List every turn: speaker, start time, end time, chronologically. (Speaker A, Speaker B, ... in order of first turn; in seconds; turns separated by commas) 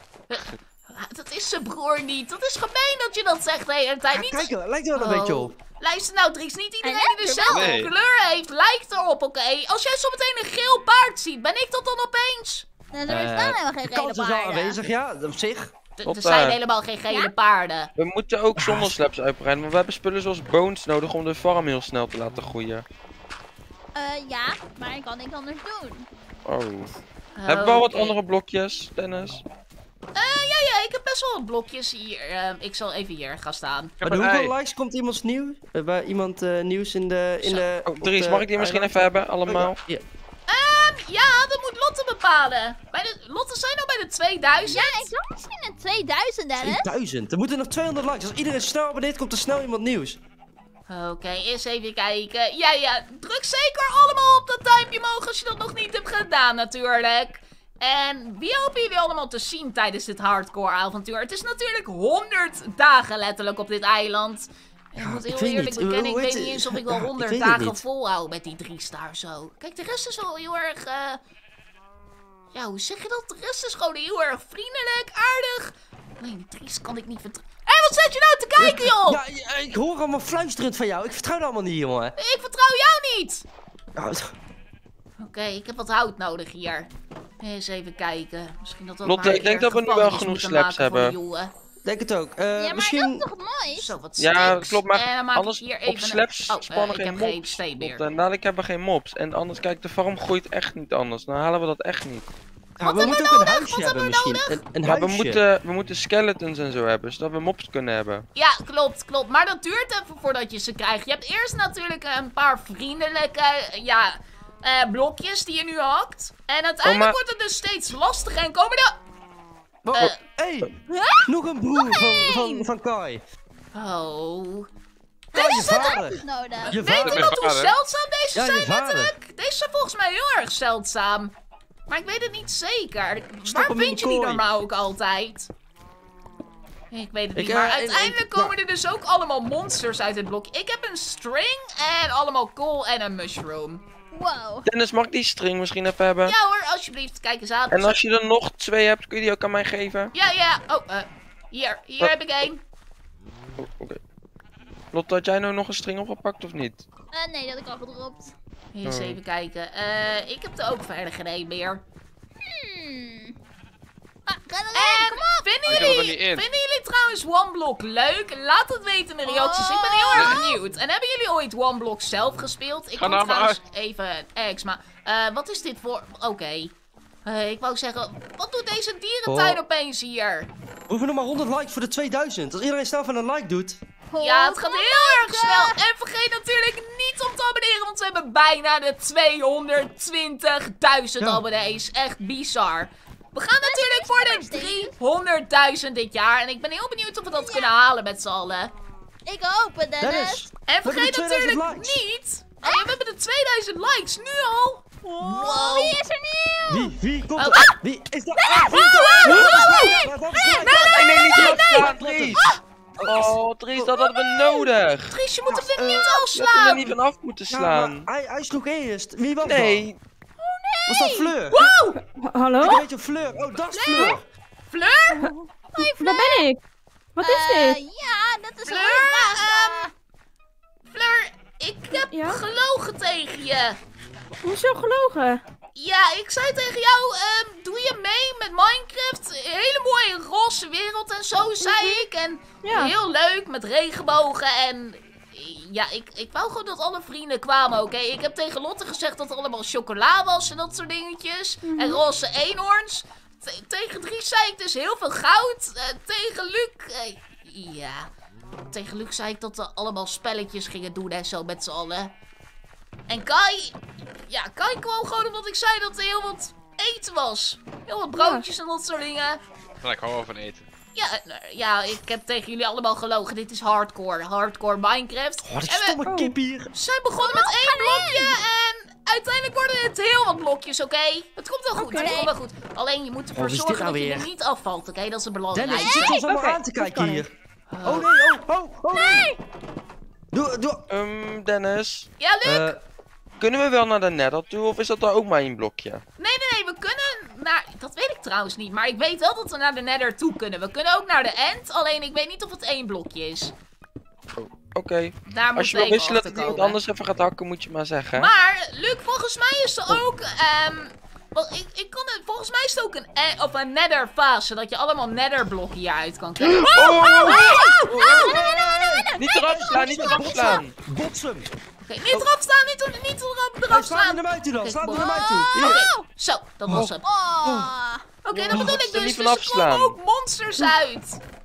Speaker A: 0.3-12.7, Speaker B: 4.1-5.5, Speaker C: 6.8-7.7, Speaker D: 7.5-7.9, Speaker C: 12.9-14.8, Speaker B: 13.1-15.7, Speaker A: 16.0-17.9, Speaker E: 16.1-16.6, Speaker E: 18.0-22.9, Speaker B: 18.6-19.0, Speaker C: 23.9-26.1, Speaker E: 26.5-26.9, Speaker A: 27.4-28.2, Speaker E: 27.5-29.4, Speaker A: 30.1-34.0, Speaker D: 34.0-34.5, Speaker B: 34.0-40.0, Speaker E: 37.9-39.8, Speaker A: 40.5-45.1, Speaker C: 44.7-46.9, Speaker B: 46.6-50.2, Speaker A: 50.9-71.2, Speaker B: 65.0-67.8, Speaker A: 72.5-79.2, Speaker B: 78.6-82.2, Speaker A: 82.2-83.5, Speaker B: 84.0-84.3, Speaker A: 85.2-91.5, Speaker E: 89.0-91.2, Speaker B: 91.8-93.2, Speaker C: 92.6-94.0, Speaker A: 93.8-98.0, Speaker E: 94.2-102.3, Speaker B: 102.8-105.4, Speaker A: 102.8-104.6, Speaker C: 103.0-103.3, Speaker E: 104.8-108.3, Speaker A: 108.3-119.0, Speaker E: 116.8-117.2, Speaker B: 119.8-120.7, Speaker A: 119.9-120.2, Speaker C: 120.9-122.7, Speaker B: 121.2-123.2, Speaker A: 123.7-124.7, Speaker A: 125.3-126.0, Speaker B: 125.3-127.3, Speaker C: 125.3-127.0, Speaker A: 126.7-131.3, Speaker D: 127.0-127.8, Speaker B: 128.3-129.1, Speaker A: 131.9-135.5, Speaker B: 133.4-134.4, Speaker A: 136.9-143.8, Speaker B: 137.3-138.6, Speaker C: 144.1-144.7, Speaker E: 144.7-146.3, Speaker A: 146.2-148.0, Speaker E: 147.7-150.1, Speaker A: 150.1-152.6, Speaker E: 153.6-154.0, Speaker E: 154.9-156.8, Speaker C: 157.1-158.3, Speaker A: 158.7-161.8, Speaker E: 158.8-159.2, Speaker C: 162.4-163.3, Speaker C: 164.3-165.9, Speaker A: 164.7-176.7, Speaker D: 165.7-166.5, Speaker C: 169.3-170.6, Speaker D: 170.2-170.4, Speaker D: 173.0-173.6, Speaker A: 177.2-180.5, Speaker B: 179.3-179.6, Speaker B: 180.9-183.8, Speaker C: 184.1-185.8, Speaker A: 184.2-198.7, Speaker C: 193.6-194.9, Speaker C: 197.4-197.7, Speaker C: 199.2-200.4, Speaker B: 200.0-202.0, Speaker A: 200.7-206.0, Speaker C: 205.0-206.9, Speaker B: 206.7-213.9, Speaker A: 207.4-207.7, Speaker C: 208.4-212.6, Speaker A: 209.3-210.0, Speaker A: 210.7-210.9, Speaker E: 210.9-212.5, Speaker E: 213.1-215.2, Speaker C: 214.2-214.7, Speaker A: 215.1-216.9, Speaker B: 215.5-216.2, Speaker E: 216.3-218.1, Speaker B: 217.5-219.8, Speaker E: 219.4-220.0, Speaker C: 220.4-221.3, Speaker B: 220.9-221.7, Speaker A: 221.5-222.0, Speaker F: 222.0-222.8, Speaker B: 222.6-224.3, Speaker A: 223.7-224.2, Speaker A: 224.7-225.3, Speaker F: 225.2-226.6, Speaker C: 225.2-226.4, Speaker F: 227.2-227.8, Speaker C: 227.2-229.9, Speaker A: 228.7-229.9, Speaker A: 230.9-233.8, Speaker F: 232.0-232.4, Speaker F: 234.4-235.4, Speaker A: 235.8-258.1, Speaker F: 241.7-242.0, Speaker F: 242.6-242.9, Speaker F: 251.7-252.0, Speaker A: 258.7-262.1, Speaker A: 263.1-269.4, Speaker F: 268.2-268.5, Speaker D: 269.8-270.6, Speaker A: 270.9-276.0, Speaker B: 275.4-276.7, Speaker F: 276.1-276.3, Speaker A: 276.7-286.2, Speaker C: 277.2-278.4, Speaker F: 281.8-282.2, Speaker C: 281.9-282.3, Speaker B: 283.4-284.3, Speaker B: 285.5-287.3, Speaker C: 285.7-286.1, Speaker F: 286.1-287.2, Speaker A: 287.7-288.1, Speaker B: 287.8-289.4, Speaker C: 288.9-289.4, Speaker B: 290.3-290.9, Speaker E: 290.9-292.1, Speaker A: 292.2-292.8, Speaker B: 292.4-292.8, Speaker E: 293.4-296.0, Speaker A: 296.2-303.5, Speaker E: 304.4-308.3, Speaker A: 305.3-306.8, Speaker A: 308.2-318.4, Speaker E: 316.4-317.7, Speaker C: 316.7-320.6, Speaker B: 317.9-321.5, Speaker E: 319.2-320.8, Speaker A: 321.8-327.1, Speaker B: 323.7-325.8, Speaker C: 324.9-326.1, Speaker C: 327.0-328.1, Speaker B: 327.4-327.7, Speaker A: 328.2-331.2, Speaker E: 328.3-329.9, Speaker B: 328.5-328.8